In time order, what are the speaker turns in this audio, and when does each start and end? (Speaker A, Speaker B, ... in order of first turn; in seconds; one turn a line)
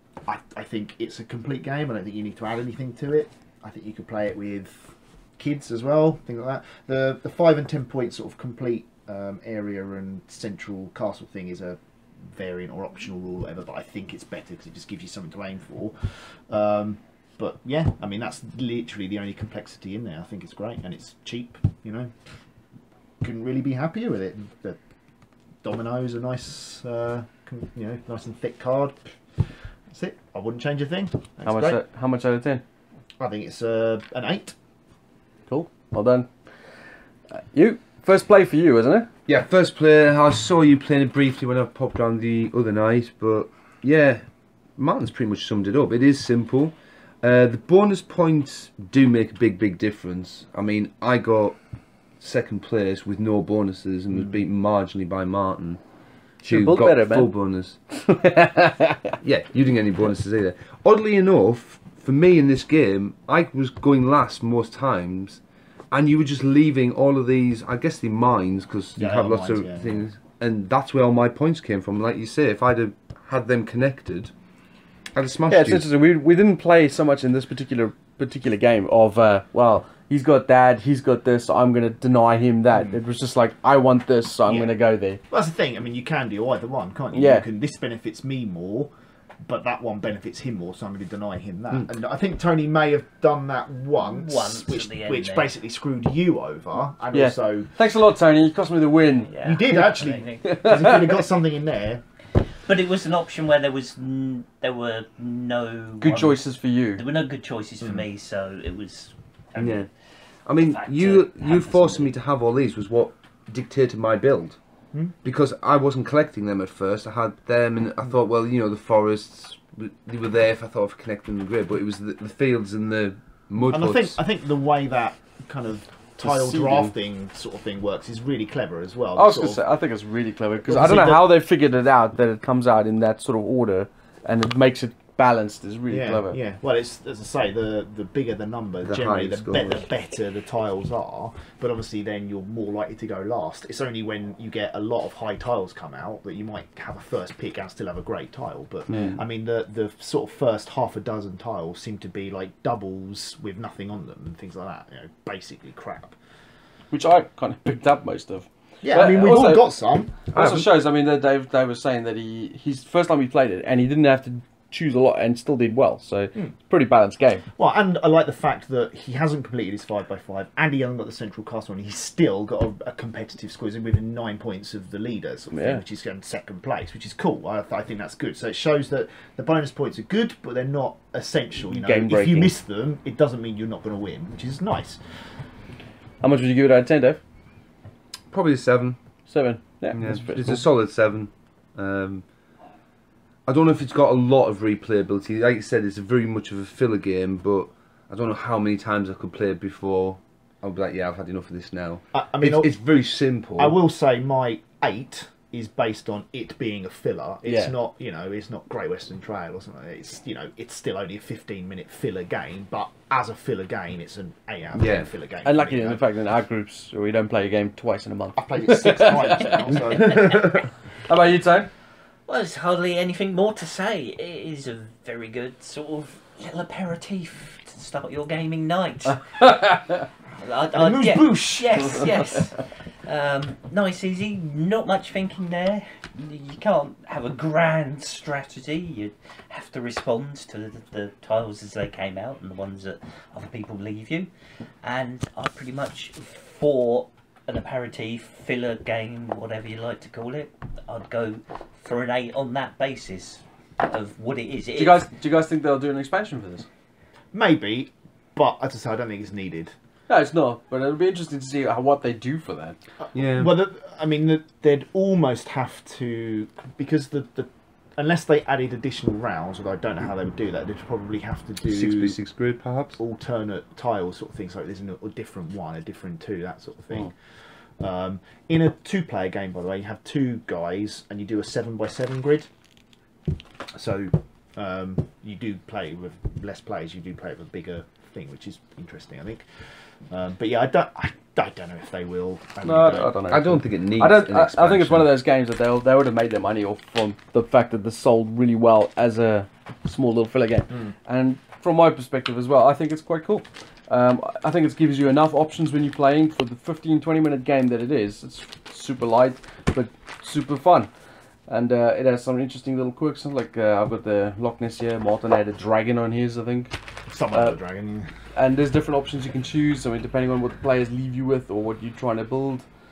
Speaker A: 0.3-22.1
Speaker A: 23.2-24.8
Speaker A: 25.6-31.8
Speaker B: 31.5-32.6
Speaker A: 33.2-34.5
Speaker B: 35.5-36.3
Speaker B: 37.3-39.1
Speaker C: 39.3-51.6
Speaker C: 52.2-55.8
Speaker B: 56.4-57.4
Speaker C: 56.4-57.8
Speaker B: 58.0-59.1
Speaker C: 59.2-74.3
Speaker A: 69.0-70.0
Speaker C: 75.1-75.9
Speaker B: 75.5-85.2
Speaker A: 82.7-83.0
Speaker A: 84.5-84.7
Speaker A: 85.3-88.9
Speaker B: 87.1-87.5
Speaker A: 89.4-97.8
Speaker D: 94.0-95.5
Speaker B: 97.1-99.8
Speaker D: 99.2-100.6
Speaker A: 99.4-102.0
Speaker B: 100.4-101.2
Speaker D: 102.4-109.9
Speaker B: 106.0-107.1
Speaker C: 109.6-109.9
Speaker C: 110.5-114.6
Speaker D: 110.6-112.2
Speaker C: 115.2-124.2
Speaker A: 123.7-129.7
Speaker C: 126.2-126.9
Speaker B: 129.2-136.4
Speaker A: 130.6-131.3
Speaker A: 135.9-156.2
Speaker C: 138.8-139.8
Speaker B: 148.9-149.2
Speaker B: 156.9-159.8
Speaker A: 158.8-160.2
Speaker C: 160.3-160.7
Speaker B: 160.3-167.5
Speaker A: 167.6-185.0
Speaker B: 175.5-175.8
Speaker B: 181.6-182.6
Speaker B: 186.2-187.2
Speaker C: 188.3-189.0
Speaker B: 189.3-190.7
Speaker C: 189.9-192.2
Speaker C: 193.5-203.8
Speaker A: 202.1-202.8
Speaker A: 203.6-216.1
Speaker B: 207.4-207.8
Speaker C: 214.7-215.1
Speaker B: 215.4-220.4
Speaker A: 218.4-220.5
Speaker D: 219.9-220.5
Speaker B: 221.0-221.7
Speaker D: 222.3-229.7
Speaker B: 229.4-230.0
Speaker D: 230.4-255.1
Speaker A: 230.7-232.0
Speaker B: 254.8-256.7
Speaker A: 257.3-259.7
Speaker B: 260.1-262.8
Speaker A: 263.1-272.2
Speaker C: 263.1-263.5
Speaker C: 271.7-273.0
Speaker A: 273.0-277.2
Speaker A: 277.8-282.5
Speaker A: 283.7-293.2
Speaker B: 292.6-310.9
Speaker C: 293.3-295.1
Speaker B: 311.5-316.7
Speaker A: 317.1-318.1
Speaker B: 317.3-317.6
Speaker B: 318.4-322.7